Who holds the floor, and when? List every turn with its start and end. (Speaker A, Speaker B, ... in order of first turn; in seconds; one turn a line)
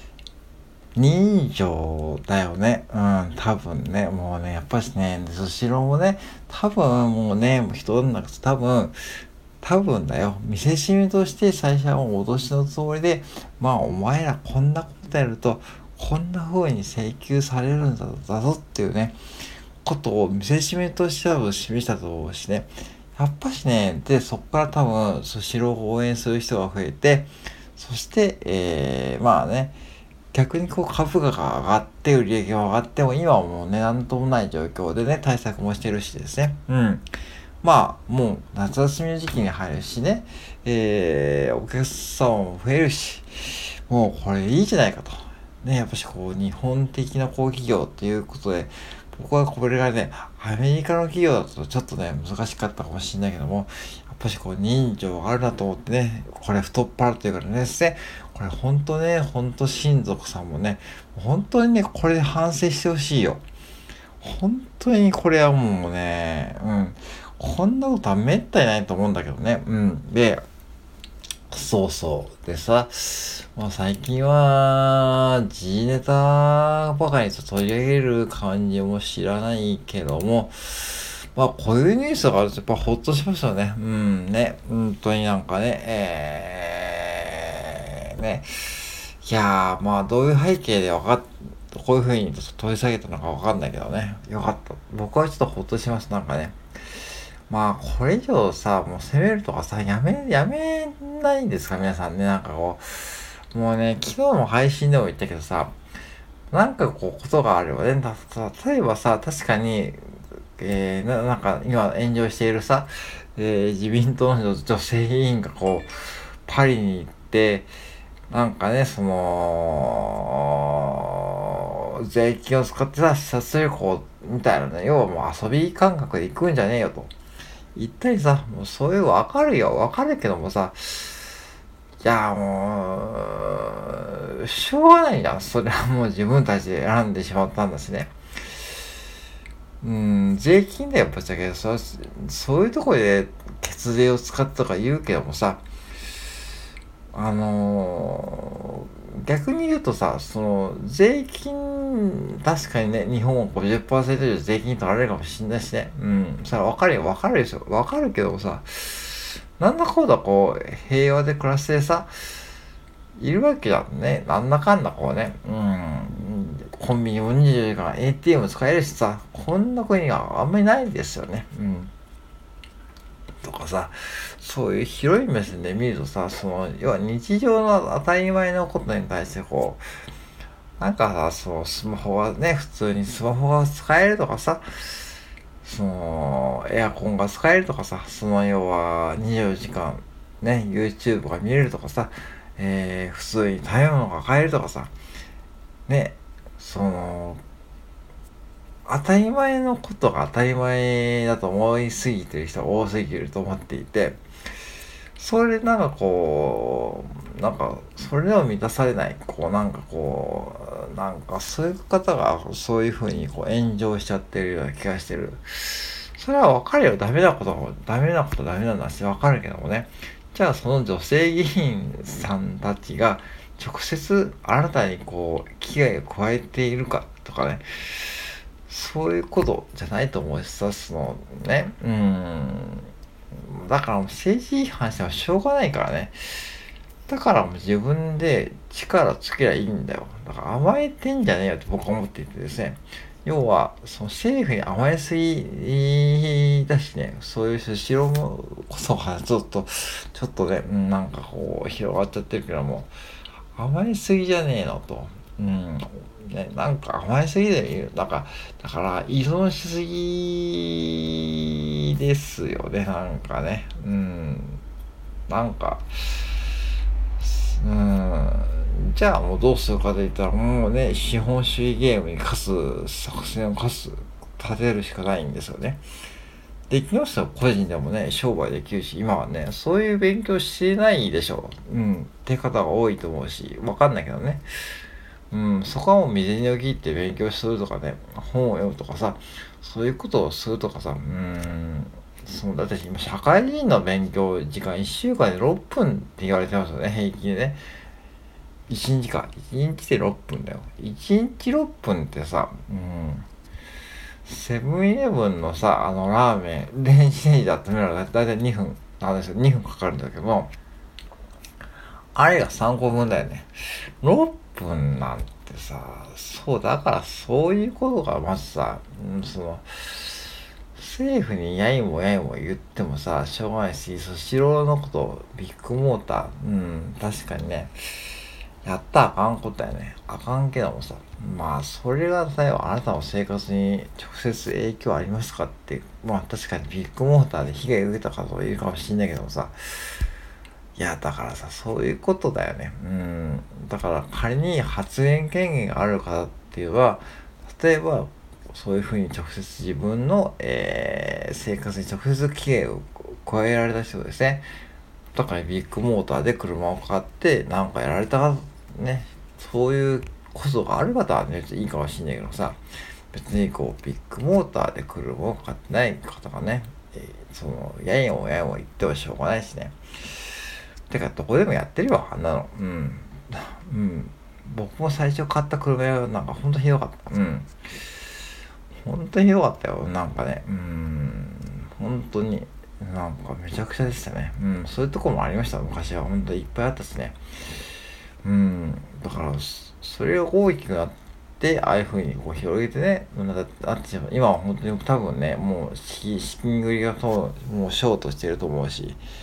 Speaker A: 0.9-8.9
Speaker A: 9.6-19.2
Speaker A: 19.8-29.7
Speaker A: 30.3-37.1
Speaker A: 37.6-63.4
Speaker A: 64.2-70.4
Speaker A: 71.5-96.6
Speaker A: 97.5-105.7
Speaker A: 106.5-117.7
Speaker A: 118.3-127.1
Speaker A: 127.7-131.2
Speaker A: 132.0-138.1
Speaker A: 139.8-145.6
Speaker A: 147.1-162.1
Speaker A: 163.2-171.9
Speaker A: 173.4-179.8
Speaker A: 180.8-185.1
Speaker A: 185.6-194.9
Speaker A: 195.9-197.4
Speaker A: 198.8-204.2
Speaker A: 205.2-236.2
Speaker A: 237.1-252.9
Speaker A: 253.5-264.6
Speaker A: 265.3-266.3
Speaker A: 267.2-275.8
Speaker A: 276.7-284.4
Speaker A: 285.3-297.6
Speaker A: 298.7-303.2
Speaker A: 304.2-310.5
Speaker A: 312.1-328.0
Speaker A: 328.6-339.9
Speaker A: 340.8-354.4
Speaker A: 355.1-362.6
Speaker A: 363.1-369.8
Speaker A: 370.9-377.8
Speaker A: 378.8-387.2
Speaker A: 388.2-399.0